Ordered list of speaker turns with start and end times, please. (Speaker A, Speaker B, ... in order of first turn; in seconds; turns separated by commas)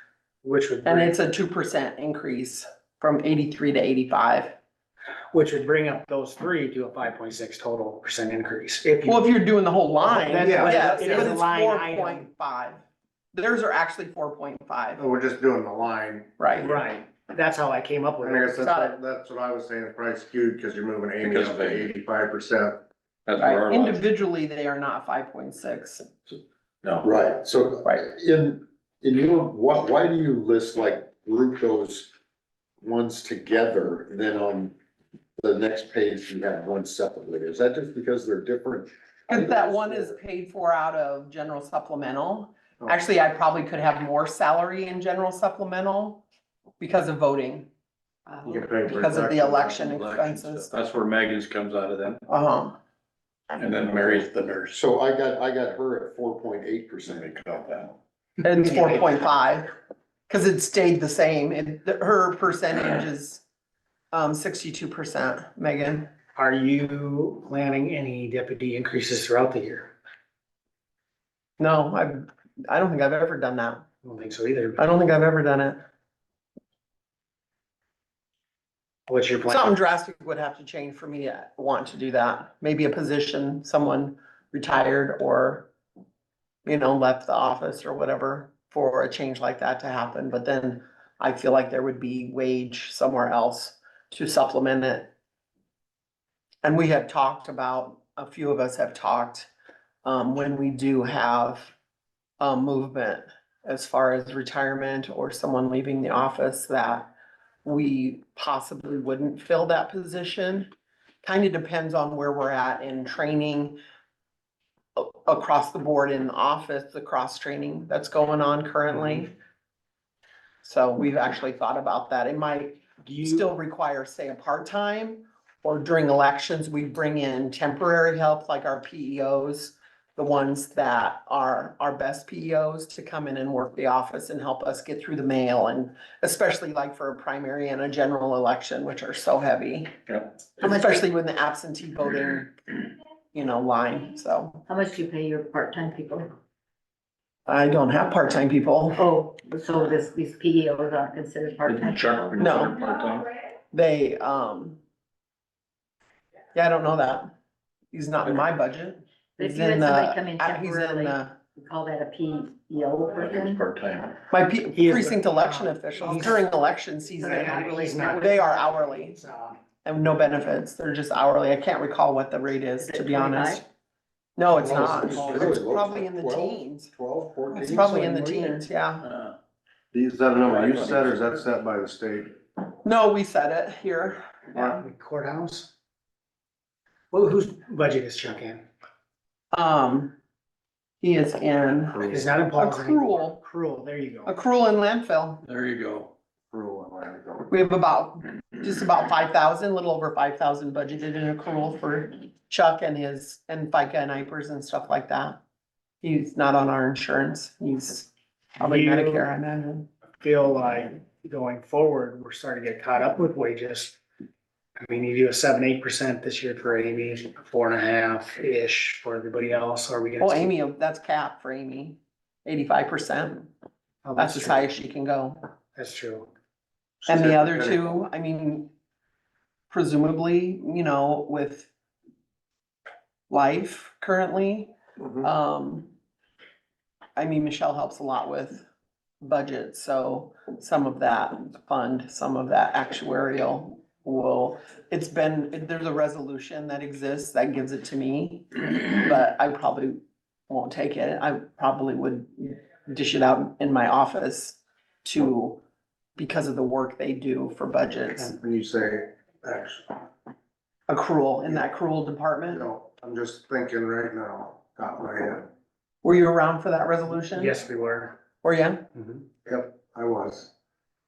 Speaker A: 0.4-1.1, Speaker B: 0.8-4.5, Speaker A: 5.3-9.2, Speaker B: 9.1-12.8, Speaker A: 10.0-12.3, Speaker C: 10.4-11.3, Speaker B: 13.3-15.0, Speaker C: 15.0-16.3, Speaker B: 16.4-16.7, Speaker A: 16.6-18.6, Speaker C: 18.2-22.8, Speaker B: 18.6-18.9, Speaker D: 21.2-22.0, Speaker D: 23.2-24.1, Speaker B: 23.4-26.1, Speaker D: 26.3-27.1, Speaker E: 27.0-32.1, Speaker E: 32.8-34.7, Speaker E: 35.4-40.1, Speaker B: 39.3-46.2, Speaker B: 46.8-47.7, Speaker C: 48.4-49.5, Speaker B: 48.9-50.8, Speaker D: 49.3-52.2, Speaker B: 52.3-52.7, Speaker D: 53.5-54.8, Speaker E: 54.7-57.6, Speaker D: 57.3-57.9, Speaker B: 58.4-59.7, Speaker B: 60.3-63.4, Speaker B: 64.1-66.1, Speaker A: 66.3-69.9, Speaker B: 71.6-73.8, Speaker A: 74.0-74.8, Speaker B: 74.8-75.8, Speaker A: 79.1-79.7, Speaker B: 79.4-85.7, Speaker B: 86.6-95.1, Speaker B: 96.6-99.5, Speaker B: 100.0-101.7, Speaker B: 102.4-107.1, Speaker B: 107.6-110.7, Speaker B: 111.2-113.8, Speaker B: 115.0-119.3, Speaker B: 120.6-139.9, Speaker A: 123.0-123.5, Speaker B: 140.6-142.6, Speaker F: 140.6-141.0, Speaker B: 143.3-144.6, Speaker F: 144.7-146.3, Speaker B: 147.5-149.0, Speaker F: 149.0-152.2, Speaker D: 151.7-153.2, Speaker B: 152.4-152.8, Speaker B: 153.7-154.8, Speaker B: 156.5-157.2, Speaker B: 157.9-161.3, Speaker F: 159.4-163.6, Speaker D: 163.1-164.2, Speaker B: 164.3-169.2, Speaker A: 164.7-166.5, Speaker A: 167.2-169.6, Speaker F: 167.5-168.3, Speaker B: 169.8-173.6, Speaker F: 172.8-173.6, Speaker B: 174.4-176.9, Speaker E: 174.6-178.5, Speaker D: 174.6-175.6, Speaker B: 177.5-179.1, Speaker A: 178.1-178.4, Speaker D: 179.0-179.3, Speaker C: 179.9-182.4, Speaker D: 180.4-181.4, Speaker B: 182.8-184.8, Speaker A: 184.5-185.7, Speaker A: 187.1-188.6, Speaker B: 189.5-190.1, Speaker B: 191.0-193.4, Speaker C: 192.0-192.3, Speaker A: 192.0-194.4, Speaker B: 194.2-195.4, Speaker D: 195.4-196.1, Speaker C: 196.5-197.5, Speaker B: 197.5-205.4, Speaker B: 206.0-209.9, Speaker A: 208.6-209.3, Speaker A: 210.2-214.0, Speaker A: 214.8-220.5, Speaker B: 220.2-223.5, Speaker A: 224.0-224.7, Speaker B: 224.2-225.4, Speaker A: 225.7-226.3, Speaker C: 227.0-227.9, Speaker B: 227.1-228.7, Speaker B: 229.7-231.7, Speaker B: 233.3-234.7, Speaker B: 235.2-235.9, Speaker B: 237.2-238.6, Speaker B: 239.2-255.6, Speaker B: 256.2-258.4, Speaker C: 258.4-260.1, Speaker B: 260.9-262.7, Speaker C: 262.5-265.5, Speaker B: 266.0-267.6, Speaker A: 267.3-268.2, Speaker B: 268.4-268.8, Speaker A: 268.9-269.2, Speaker C: 269.4-270.5